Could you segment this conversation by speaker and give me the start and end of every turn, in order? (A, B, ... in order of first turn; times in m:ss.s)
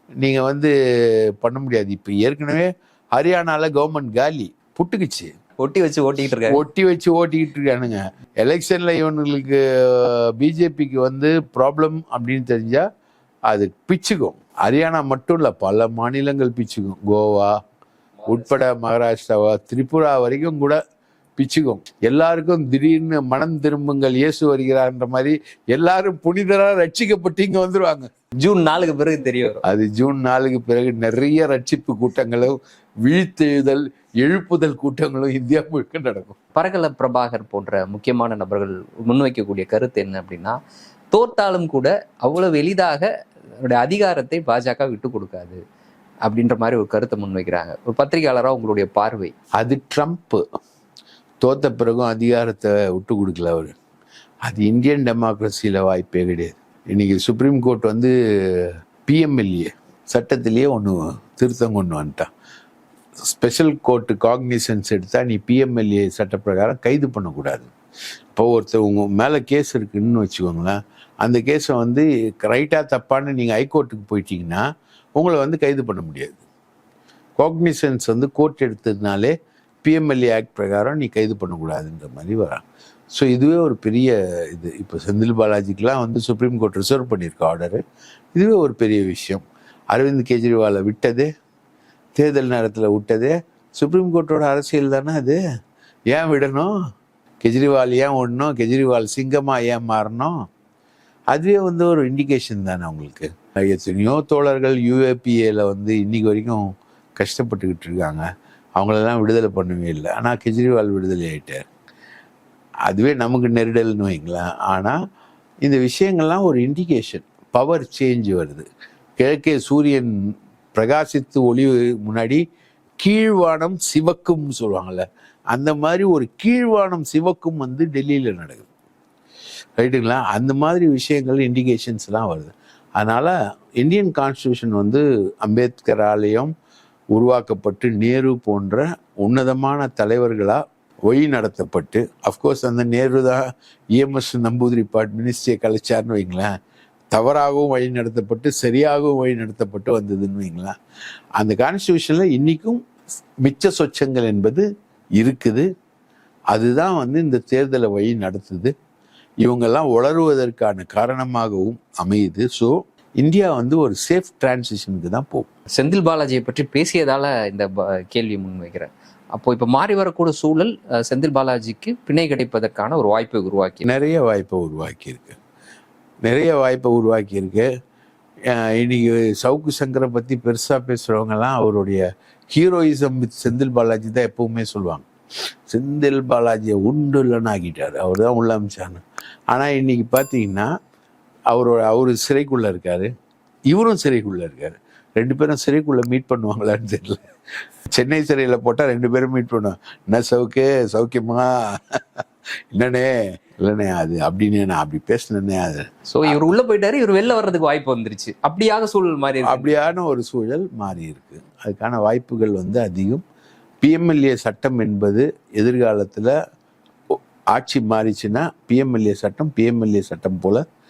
0:00.2-0:00.7 A
0:01.4-0:05.3 A
0:05.6-0:06.6 B
0:06.4-0:12.8 A
0:13.5-0:17.6 A
0:18.3-0:20.8 A
0:21.4-0:28.1 A
0:28.4-0:29.6 B
0:29.6-0:36.3 A
0:36.5-0:40.5 B
0:41.1-0:43.0 B
0:43.6-0:45.6 B
0:46.2-0:49.3 B
0:49.6-0:50.4 A
0:51.4-0:53.7 A
0:54.4-1:02.3 A
1:03.2-1:07.7 A
1:08.3-1:14.6 A
1:15.2-1:16.4 A
1:17.4-1:22.6 A
1:23.1-1:27.8 A
1:28.3-1:31.3 A
1:32.2-1:35.4 A
1:36.1-1:36.7 A
1:37.4-1:40.3 A
1:41.3-1:46.6 A
1:47.2-1:48.2 A
1:48.8-1:51.6 A
1:52.9-1:55.0 A
1:55.6-1:58.6 A
1:59.2-2:00.1 A
2:00.7-2:02.4 A
2:03.0-2:08.7 A
2:09.8-2:16.5 A
2:17.1-2:26.5 A
2:27.1-2:30.7 A
2:31.4-2:32.8 A
2:33.4-2:34.6 A
2:35.2-2:35.6 A
2:36.5-2:38.7 A
2:39.4-2:45.5 A
2:45.7-2:53.8 B
2:53.8-2:55.4 A
2:56.2-2:57.7 A
2:58.5-3:05.1 A
3:05.7-3:10.7 A
3:11.5-3:13.1 A
3:13.7-3:17.2 A
3:17.9-3:22.2 A
3:22.7-3:26.4 A
3:26.1-3:29.8 B
3:29.4-3:33.2 A
3:33.8-3:36.3 A
3:37.5-3:40.6 A